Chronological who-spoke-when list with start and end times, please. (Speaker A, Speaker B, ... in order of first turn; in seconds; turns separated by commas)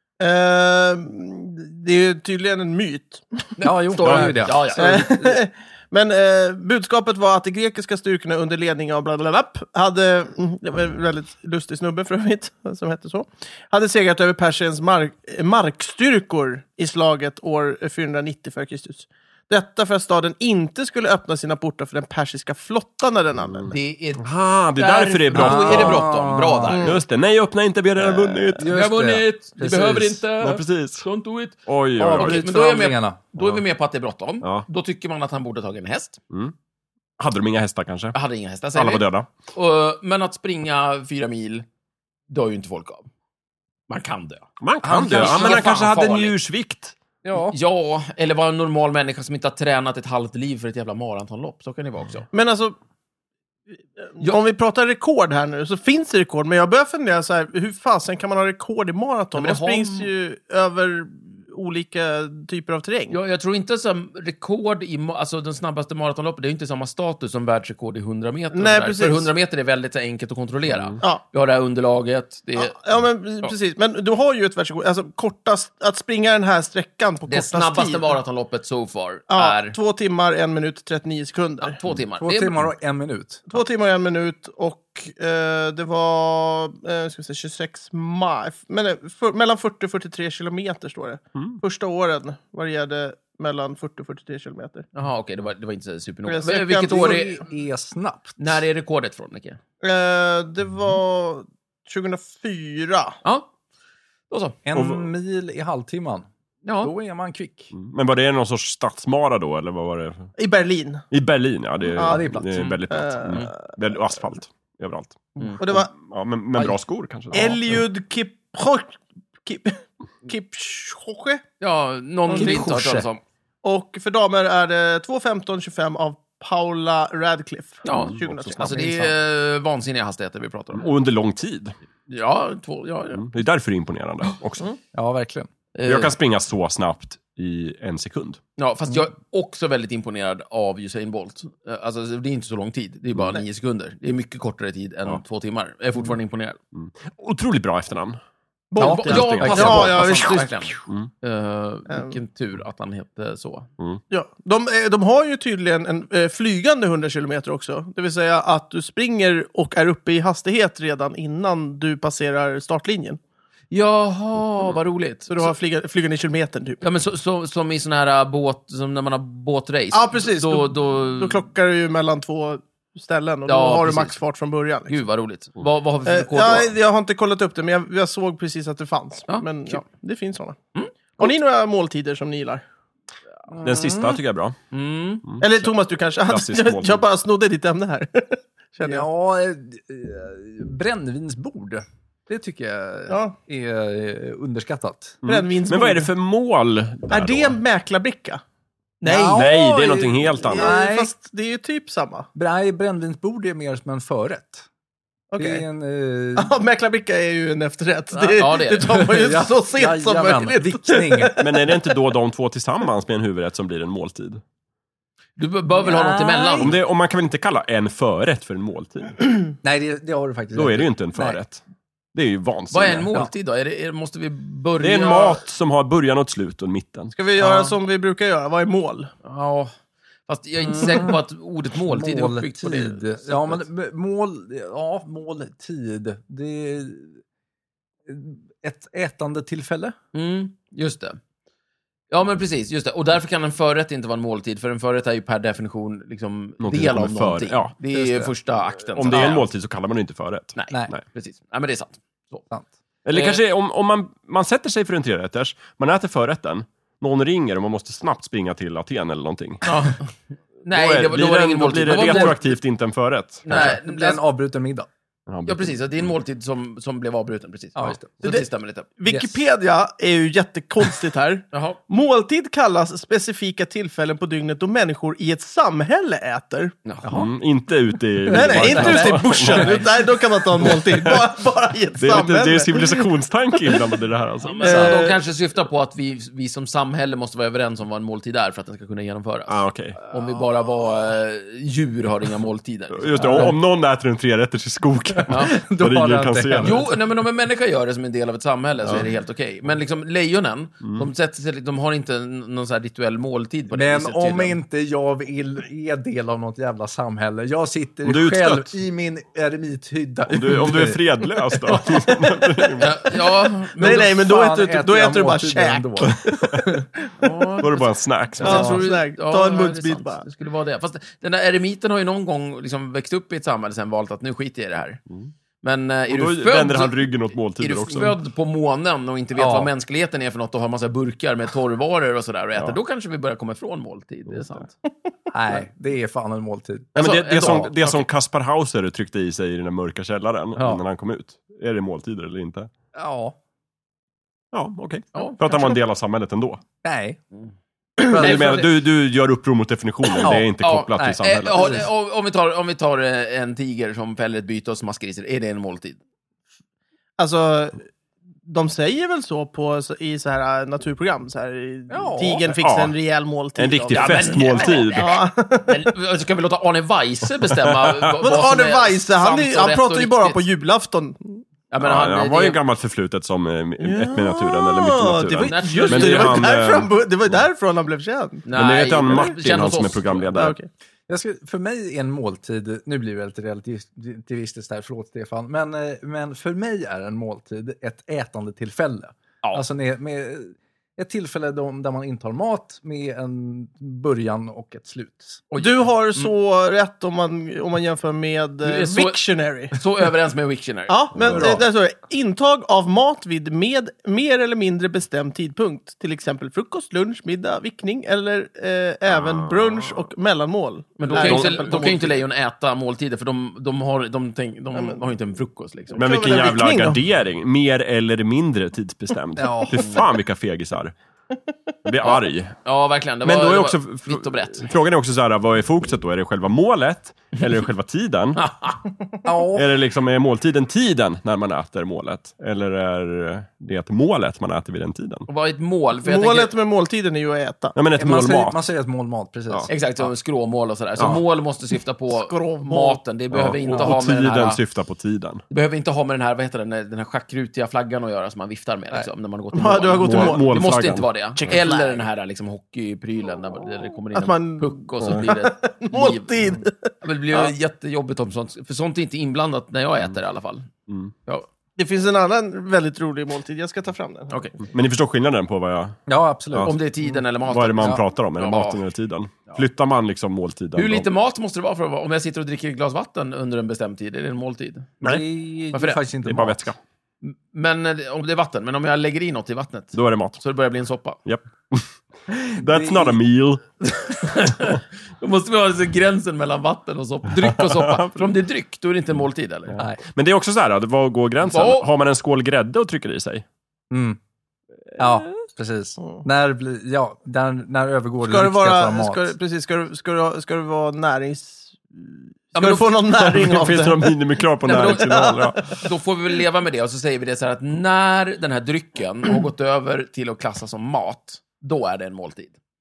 Speaker A: 0.2-3.5, Speaker B: 3.6-5.4, Speaker C: 3.6-4.6, Speaker D: 4.0-4.5, Speaker A: 4.7-23.8, Speaker B: 23.7-27.0, Speaker D: 24.2-26.1, Speaker C: 25.3-26.8, Speaker D: 26.8-28.7, Speaker C: 28.6-30.2, Speaker B: 28.7-31.6, Speaker D: 30.4-31.1, Speaker D: 31.7-32.5, Speaker C: 32.0-33.2, Speaker B: 32.2-36.2, Speaker D: 37.2-38.1, Speaker B: 38.1-41.7, Speaker D: 38.7-39.3, Speaker B: 42.3-43.1, Speaker B: 43.9-44.5, Speaker D: 44.6-47.0, Speaker C: 44.8-46.2, Speaker B: 45.0-46.3, Speaker C: 47.2-47.5, Speaker B: 47.3-52.3, Speaker A: 52.3-52.8, Speaker A: 54.0-63.2, Speaker B: 59.4-60.1, Speaker B: 63.1-72.8, Speaker A: 68.5-69.3, Speaker A: 72.5-78.2, Speaker B: 77.3-79.8, Speaker A: 79.3-81.8, Speaker B: 81.6-82.6, Speaker C: 82.2-83.5, Speaker A: 83.5-94.9, Speaker B: 95.0-97.4, Speaker A: 96.3-97.2, Speaker C: 96.8-98.6, Speaker B: 98.4-99.6, Speaker A: 99.8-103.2, Speaker B: 104.3-104.6, Speaker C: 104.7-106.3, Speaker D: 104.8-105.1, Speaker B: 106.6-106.9, Speaker C: 106.8-107.7, Speaker D: 107.7-110.3, Speaker A: 110.4-111.0, Speaker D: 111.1-117.8, Speaker C: 112.0-112.7, Speaker A: 112.0-113.5, Speaker A: 115.6-115.9, Speaker A: 117.3-121.4, Speaker B: 121.6-123.2, Speaker A: 122.3-122.7, Speaker C: 122.3-123.1, Speaker A: 123.6-128.8, Speaker B: 127.9-130.9, Speaker C: 128.5-129.1, Speaker D: 130.7-131.8, Speaker B: 132.1-133.3, Speaker D: 133.2-134.7, Speaker C: 134.9-135.5, Speaker B: 135.8-136.1, Speaker D: 135.8-138.4, Speaker B: 138.6-146.6, Speaker D: 146.7-148.2, Speaker A: 148.7-150.6, Speaker C: 148.8-150.2, Speaker B: 148.8-153.7, Speaker D: 149.1-150.2, Speaker A: 151.9-152.2, Speaker A: 154.1-163.2, Speaker B: 163.7-165.5, Speaker A: 165.3-166.8, Speaker B: 166.8-171.4, Speaker A: 169.9-175.0, Speaker B: 173.5-174.2, Speaker B: 174.9-176.7, Speaker A: 176.1-180.6, Speaker B: 179.3-179.8, Speaker B: 180.8-181.3, Speaker A: 181.2-182.6, Speaker C: 183.5-184.2, Speaker D: 183.6-184.6, Speaker B: 184.7-185.2, Speaker A: 185.4-189.1, Speaker D: 186.3-187.0, Speaker C: 188.8-195.2, Speaker A: 193.1-193.3, Speaker D: 195.2-197.6, Speaker A: 195.3-196.1, Speaker A: 197.1-198.4, Speaker B: 199.0-199.5, Speaker C: 199.1-201.1, Speaker D: 199.3-200.7, Speaker A: 200.4-202.3, Speaker C: 202.3-204.7, Speaker A: 205.3-205.7, Speaker C: 205.4-206.5, Speaker A: 206.4-212.0, Speaker B: 208.1-209.1, Speaker C: 209.0-211.5, Speaker D: 211.4-214.4, Speaker B: 215.4-216.8, Speaker C: 215.8-216.7, Speaker D: 216.6-219.2, Speaker C: 219.6-221.4, Speaker D: 220.6-221.6, Speaker D: 222.1-223.1, Speaker B: 222.7-225.4, Speaker D: 224.8-227.1, Speaker A: 227.1-229.1, Speaker C: 227.4-227.7, Speaker B: 229.2-229.7, Speaker B: 230.3-233.6, Speaker C: 230.7-231.2, Speaker C: 231.9-237.2, Speaker C: 238.1-240.0, Speaker B: 240.1-241.2, Speaker B: 242.1-249.5, Speaker D: 246.6-247.7, Speaker C: 247.9-248.3, Speaker D: 249.0-251.0, Speaker B: 250.6-252.4, Speaker D: 253.1-259.6, Speaker B: 253.1-253.4, Speaker B: 259.6-260.0, Speaker B: 260.6-262.6, Speaker D: 260.7-263.8, Speaker C: 261.9-262.3, Speaker B: 263.5-264.2, Speaker C: 263.5-264.9, Speaker D: 265.3-266.1, Speaker B: 265.5-268.9, Speaker C: 267.8-268.1, Speaker A: 269.0-276.7, Speaker C: 269.1-269.4, Speaker B: 271.5-271.8, Speaker C: 277.0-277.3, Speaker D: 277.1-279.9, Speaker C: 278.3-279.9, Speaker A: 278.3-283.1, Speaker D: 280.7-281.1, Speaker D: 282.0-285.1, Speaker B: 284.4-293.6, Speaker A: 284.6-285.2, Speaker D: 289.5-290.0, Speaker D: 292.9-296.9, Speaker C: 293.2-293.5, Speaker C: 295.2-296.9, Speaker B: 295.3-295.5, Speaker B: 296.6-304.6, Speaker C: 303.7-311.0, Speaker D: 308.1-308.8, Speaker D: 310.3-313.2, Speaker A: 311.8-312.8, Speaker B: 312.8-314.1, Speaker A: 313.7-317.4, Speaker C: 313.8-316.7, Speaker D: 316.0-316.4, Speaker B: 317.2-325.0, Speaker D: 317.6-318.7, Speaker A: 318.4-320.2, Speaker C: 318.4-318.8, Speaker B: 325.6-334.7, Speaker D: 326.1-328.2, Speaker C: 329.4-329.7, Speaker C: 335.3-337.7, Speaker D: 336.9-342.7, Speaker B: 337.0-338.0, Speaker C: 340.6-340.8, Speaker C: 342.9-343.4, Speaker D: 344.5-346.6, Speaker B: 345.1-345.4, Speaker C: 346.8-347.2, Speaker C: 348.1-348.7, Speaker D: 348.1-351.9, Speaker B: 350.2-356.0, Speaker C: 350.2-351.8, Speaker A: 357.2-357.8, Speaker A: 358.5-365.9, Speaker C: 361.9-362.4, Speaker D: 362.5-363.0, Speaker D: 363.6-365.2, Speaker B: 363.9-370.4, Speaker D: 367.6-368.1, Speaker A: 368.2-371.4, Speaker B: 371.7-372.6, Speaker D: 371.8-377.4, Speaker A: 373.8-378.5, Speaker B: 375.4-376.5, Speaker B: 378.5-380.3, Speaker D: 378.5-380.6, Speaker A: 380.3-380.7, Speaker C: 381.1-395.4, Speaker B: 395.5-396.3, Speaker A: 395.6-399.8, Speaker B: 398.6-401.1, Speaker A: 400.9-412.2, Speaker D: 401.1-401.5, Speaker C: 401.3-401.6, Speaker D: 409.1-410.1, Speaker B: 411.0-416.1, Speaker D: 411.1-411.6, Speaker A: 414.8-415.0, Speaker A: 415.9-417.0, Speaker D: 416.0-420.9, Speaker C: 419.4-419.9, Speaker D: 421.9-422.6, Speaker B: 422.0-424.7, Speaker D: 423.2-428.4, Speaker B: 428.4-428.8, Speaker C: 429.2-429.7, Speaker D: 429.6-435.3, Speaker B: 435.3-436.5, Speaker A: 436.0-437.8, Speaker D: 437.8-438.6, Speaker C: 438.0-440.1, Speaker B: 439.7-444.6, Speaker D: 441.0-441.2, Speaker A: 442.1-443.0, Speaker D: 443.3-445.4, Speaker B: 445.5-456.3, Speaker A: 449.5-450.5, Speaker D: 450.0-451.6, Speaker A: 451.4-452.1, Speaker A: 454.1-457.5, Speaker B: 457.0-460.7, Speaker A: 461.8-464.6, Speaker D: 464.6-466.0, Speaker C: 466.1-467.2, Speaker D: 466.5-466.8, Speaker B: 466.6-468.8, Speaker D: 467.4-471.1, Speaker B: 470.8-475.0, Speaker C: 475.0-476.7, Speaker B: 475.7-476.0, Speaker D: 476.2-476.8, Speaker B: 477.2-481.2, Speaker D: 479.9-480.4, Speaker D: 481.3-483.6, Speaker C: 482.6-483.2, Speaker B: 483.9-489.8, Speaker D: 487.4-488.3, Speaker D: 489.7-493.4, Speaker B: 491.4-491.9, Speaker C: 493.9-494.2, Speaker C: 495.0-499.3, Speaker A: 498.2-504.1, Speaker B: 502.6-502.9, Speaker D: 503.1-505.9, Speaker A: 504.7-505.5, Speaker B: 504.7-512.5